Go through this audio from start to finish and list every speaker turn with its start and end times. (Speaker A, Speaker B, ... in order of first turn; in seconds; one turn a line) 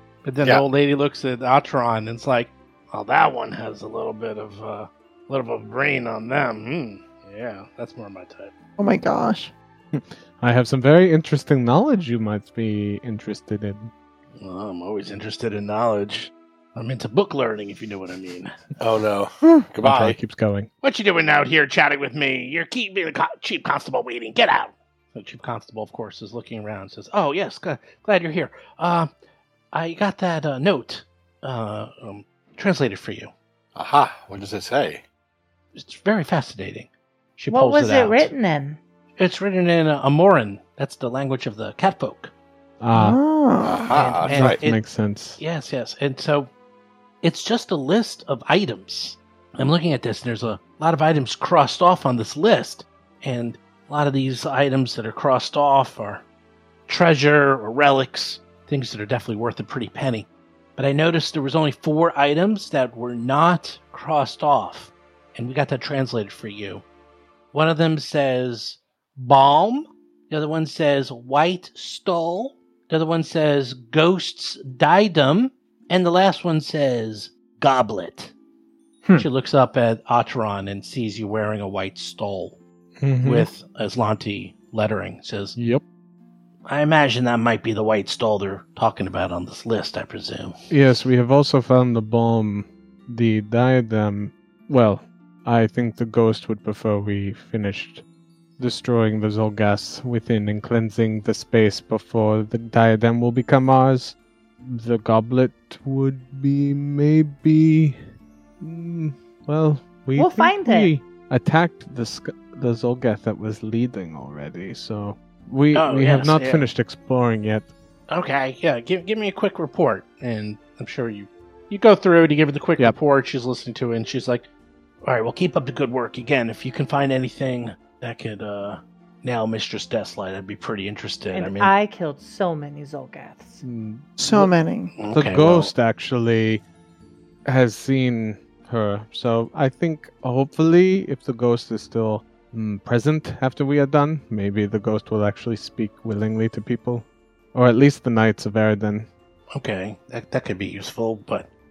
Speaker A: 0.2-8.5
Speaker B: 8.8-9.5
Speaker C: 9.9-13.9
Speaker A: 14.4-18.6
Speaker D: 18.8-20.2
Speaker C: 19.8-20.7
Speaker A: 20.8-29.1
Speaker A: 29.7-33.3
Speaker D: 33.8-35.0
Speaker A: 35.7-38.3
Speaker E: 37.5-38.8
Speaker A: 39.2-42.3
Speaker C: 42.8-43.2
Speaker B: 42.9-43.9
Speaker D: 43.6-44.6
Speaker A: 43.9-44.8
Speaker C: 44.2-45.4
Speaker A: 45.4-46.5
Speaker A: 47.2-56.2
Speaker A: 56.9-66.8
Speaker A: 67.5-78.3
Speaker A: 79.1-82.6
Speaker C: 83.0-83.5
Speaker A: 83.2-85.6
Speaker C: 85.5-85.8
Speaker A: 86.7-90.5
Speaker C: 90.7-98.0
Speaker C: 98.6-108.0
Speaker C: 108.6-117.7
Speaker E: 110.2-110.9
Speaker A: 115.7-116.7
Speaker A: 118.1-124.5
Speaker A: 125.0-131.7
Speaker E: 131.3-133.6
Speaker C: 133.6-134.4
Speaker B: 134.2-134.9
Speaker A: 135.0-135.7
Speaker C: 135.1-136.6
Speaker C: 137.4-149.1
Speaker A: 149.5-151.5